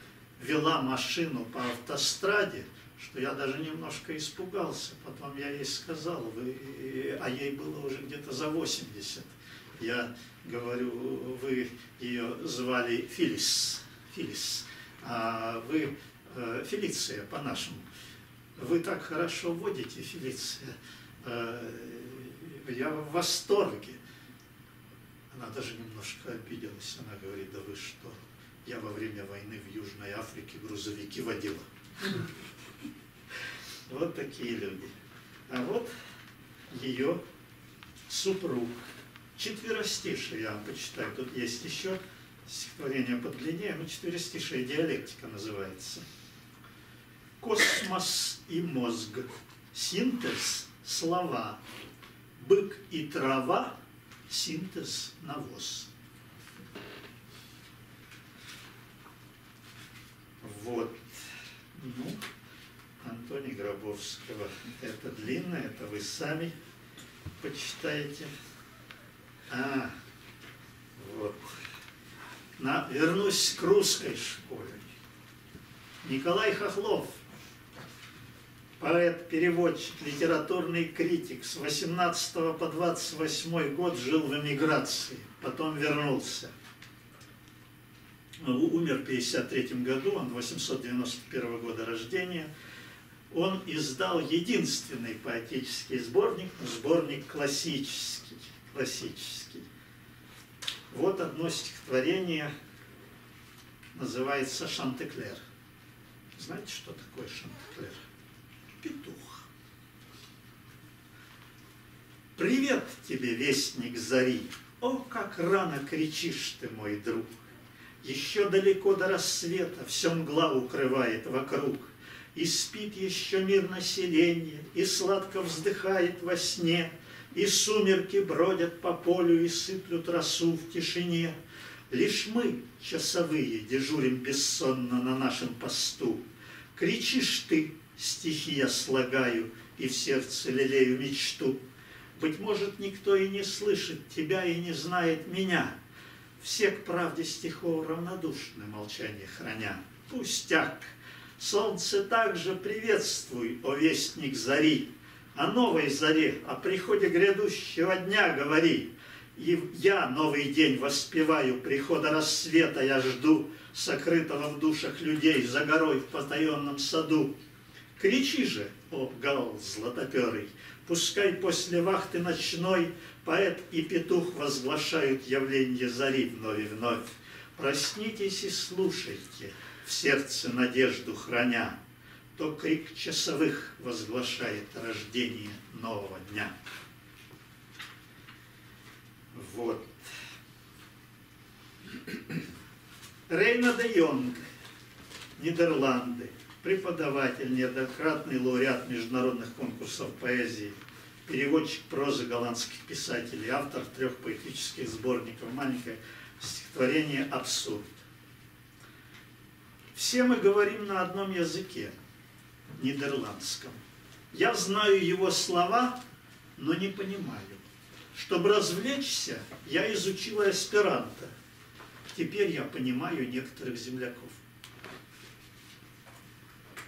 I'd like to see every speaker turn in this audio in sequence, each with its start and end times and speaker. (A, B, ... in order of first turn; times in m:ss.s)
0:00.4-0:17.9 A
0:18.6-0:24.0 A
0:25.3-0:31.6 A
0:33.9-0:34.9 A
0:35.5-0:35.9 A
0:36.7-0:37.2 A
0:38.1-0:38.8 A
0:39.4-0:46.0 A
0:47.4-0:51.6 A
0:52.4-0:53.7 A
0:54.3-0:55.9 A
1:00.4-1:02.2 A
1:03.0-1:06.5 A
1:07.4-1:08.3 A
1:09.5-1:09.9 A
1:11.0-1:11.5 A
1:12.6-1:14.8 A
1:16.0-1:17.2 A
1:18.8-1:26.5 A
1:28.4-1:32.5 A
1:33.3-1:39.6 A
1:40.9-1:42.5 A
1:43.9-1:45.4 A
1:46.4-1:48.0 A
1:48.8-1:49.5 A
1:52.4-1:57.4 A
1:58.0-2:11.3 A
2:11.9-2:16.2 A
2:16.7-2:21.6 A
2:22.1-2:25.8 A
2:26.4-2:47.3 A
2:48.0-3:01.8 A
3:02.4-3:06.5 A
3:09.3-3:10.0 A
3:13.3-3:14.4 A
3:15.4-3:20.8 A
3:21.3-3:28.0 A
3:29.9-3:32.0 A
3:32.8-3:33.8 A
3:34.3-3:36.0 A
3:36.6-3:41.3 A
3:42.1-3:44.4 A